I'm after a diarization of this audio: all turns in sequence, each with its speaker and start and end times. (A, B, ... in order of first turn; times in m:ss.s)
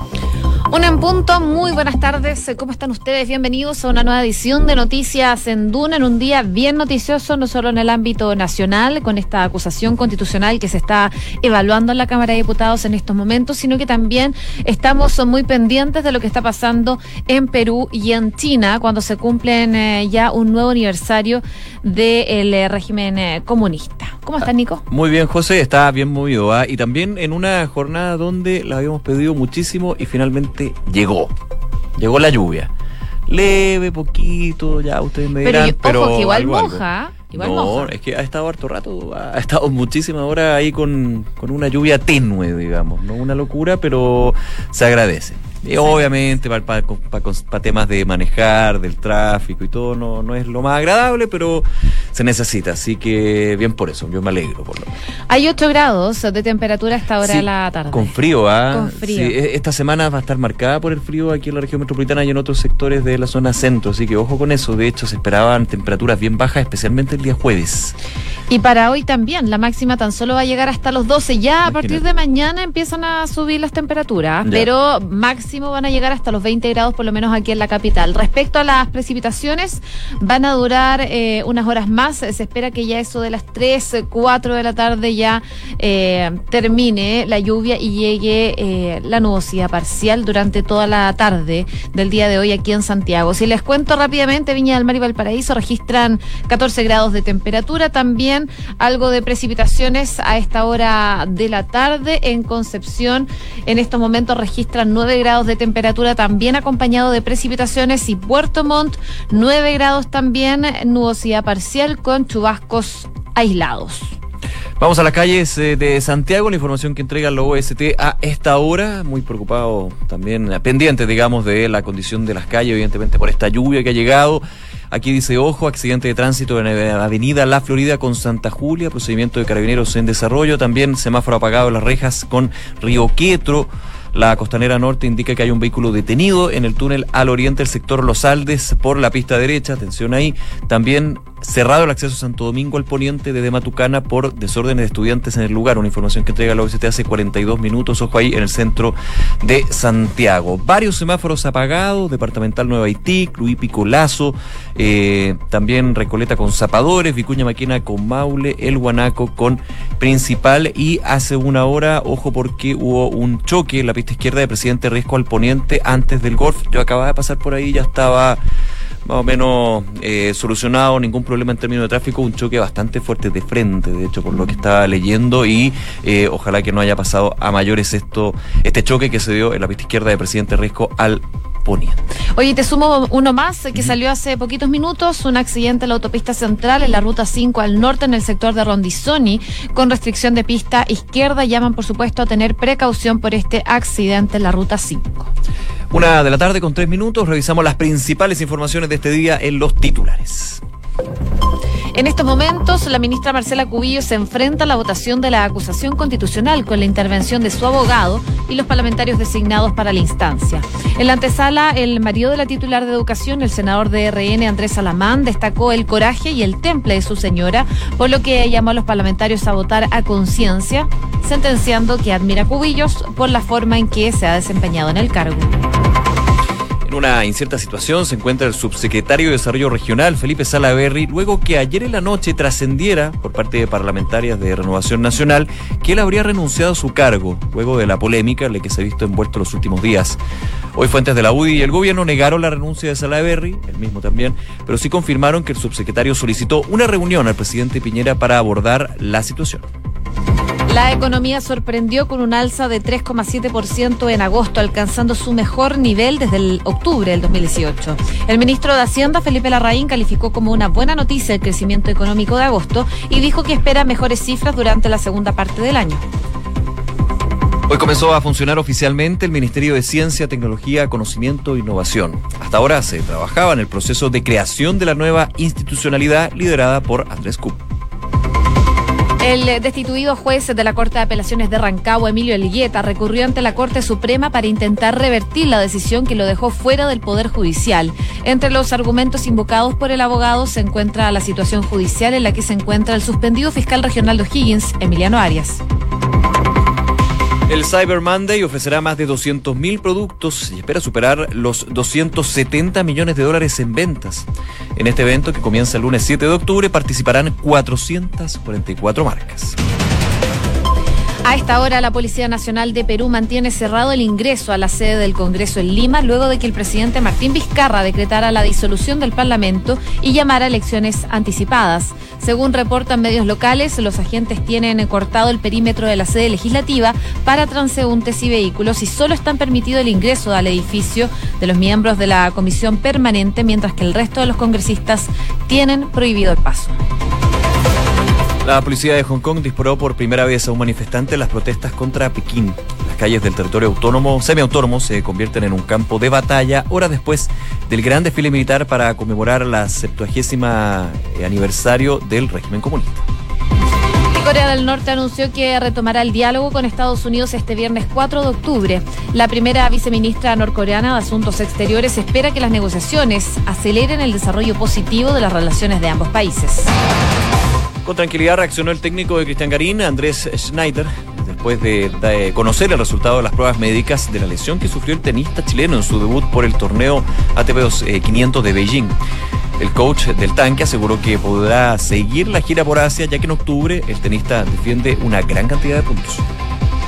0:00.7-0:24.8 A
0:24.9-0:31.3 B
0:32.0-0:32.7 B
0:33.3-0:54.9 B
0:35.4-0:37.9 A
0:55.3-0:58.1 A
0:57.2-1:07.9 B
0:58.7-0:59.3 A
1:08.5-1:54.1 A
1:11.7-1:12.0 B
1:54.8-2:48.4 B
2:49.0-3:02.0 B
3:02.3-3:15.3 A
3:15.9-3:20.6 B
3:21.9-3:45.5 A
3:46.8-4:00.2 B
4:00.7-4:09.6 B
4:10.7-4:26.0 A
4:27.7-4:37.6 B
4:39.2-4:55.6 A
4:57.5-5:09.6 B
5:11.2-5:36.8 A
5:38.4-5:53.0 B
5:54.2-6:06.7 A
6:07.8-6:18.9 B
6:19.6-6:26.2 B